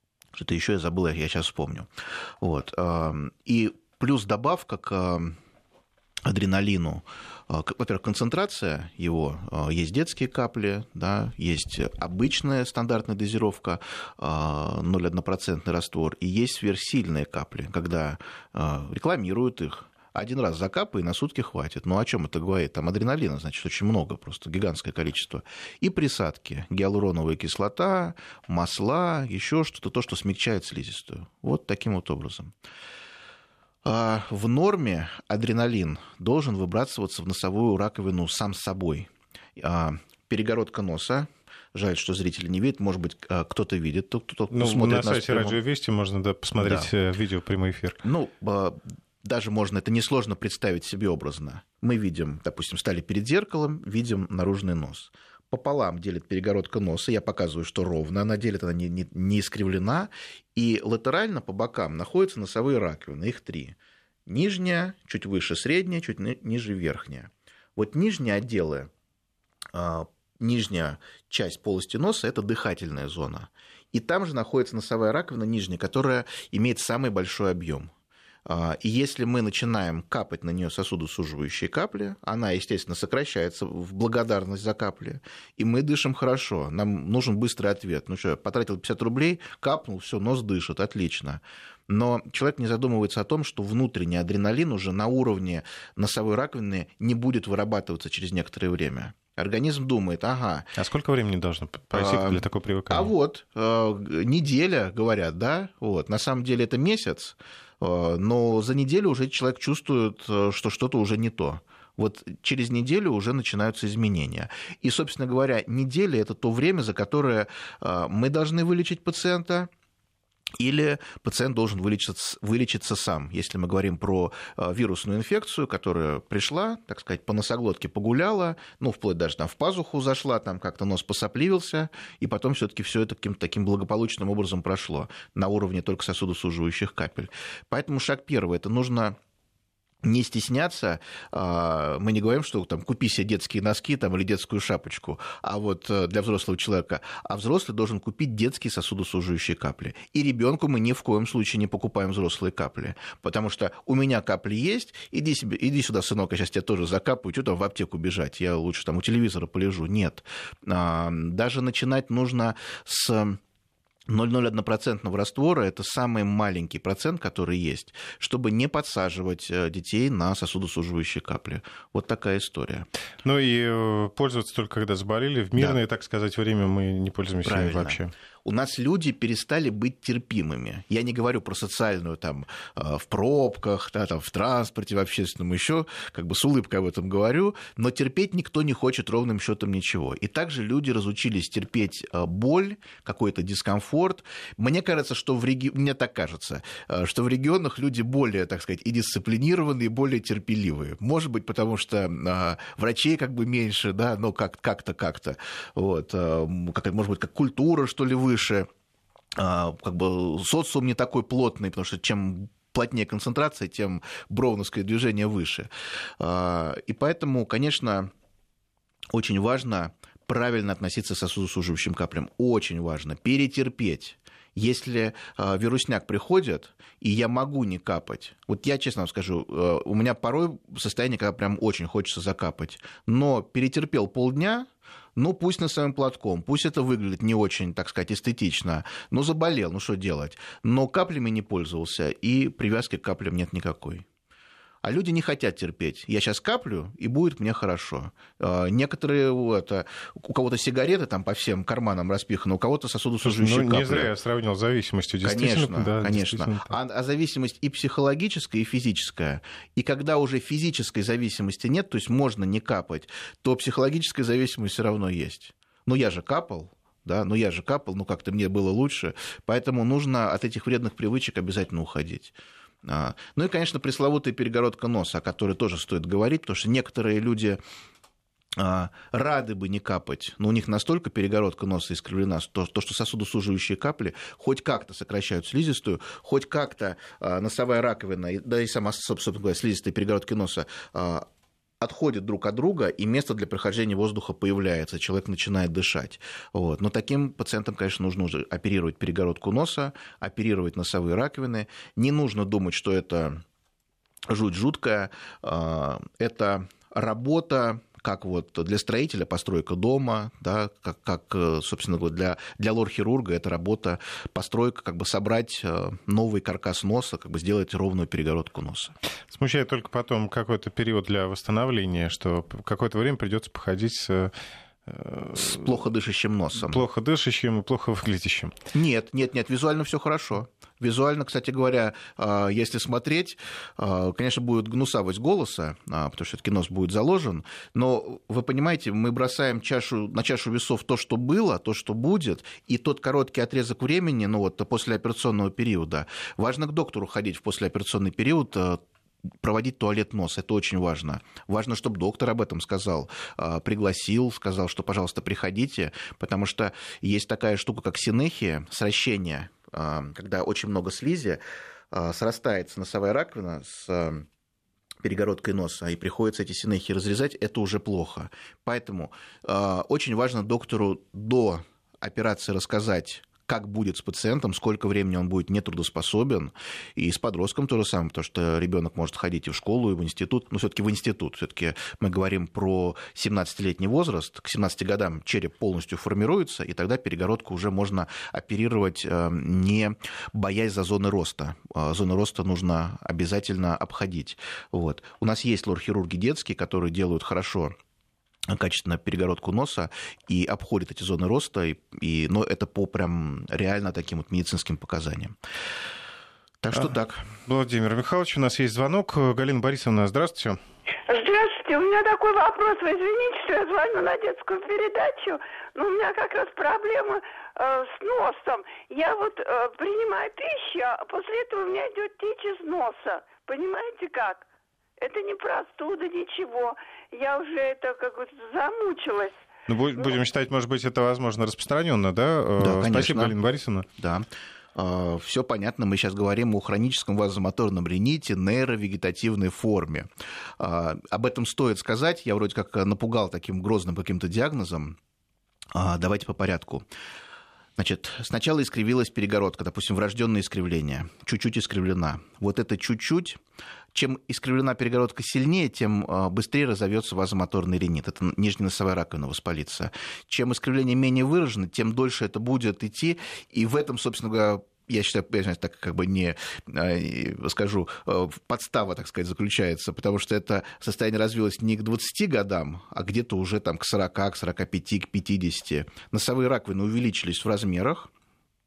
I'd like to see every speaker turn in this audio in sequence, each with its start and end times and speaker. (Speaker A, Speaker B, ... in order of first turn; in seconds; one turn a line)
Speaker A: 0.3-5.3
Speaker A: 6.2-32.5
Speaker A: 33.8-45.6
Speaker B: 44.5-48.0
Speaker A: 46.6-46.9
Speaker A: 48.0-68.9
Speaker A: 69.7-77.9
Speaker A: 78.5-100.7
Speaker B: 100.8-103.1
Speaker A: 101.9-119.7
Speaker A: 120.6-139.2
Speaker A: 140.0-163.4
Speaker A: 164.1-172.9
Speaker B: 173.2-178.1
Speaker A: 177.4-208.7
Speaker A: 209.3-218.1
Speaker A: 219.1-244.0
Speaker A: 244.8-254.1
Speaker B: 253.2-256.7
Speaker A: 255.2-277.6
Speaker A: 278.6-291.2
Speaker A: 291.8-303.4
Speaker A: 304.3-318.9
Speaker B: 319.3-324.3
Speaker B: 324.9-325.7
Speaker A: 325.3-326.8
Speaker B: 326.6-328.6
Speaker A: 328.7-348.8
Speaker A: 349.4-364.2
Speaker A: 365.0-397.7
Speaker A: 398.5-405.4
Speaker A: 406.6-407.2
Speaker B: 406.7-410.6
Speaker C: 411.1-424.5
Speaker C: 425.0-429.3
Speaker B: 429.7-433.9
Speaker A: 432.6-433.3
Speaker A: 434.0-445.0
Speaker A: 445.7-446.9
Speaker A: 447.8-453.4
Speaker A: 453.9-478.1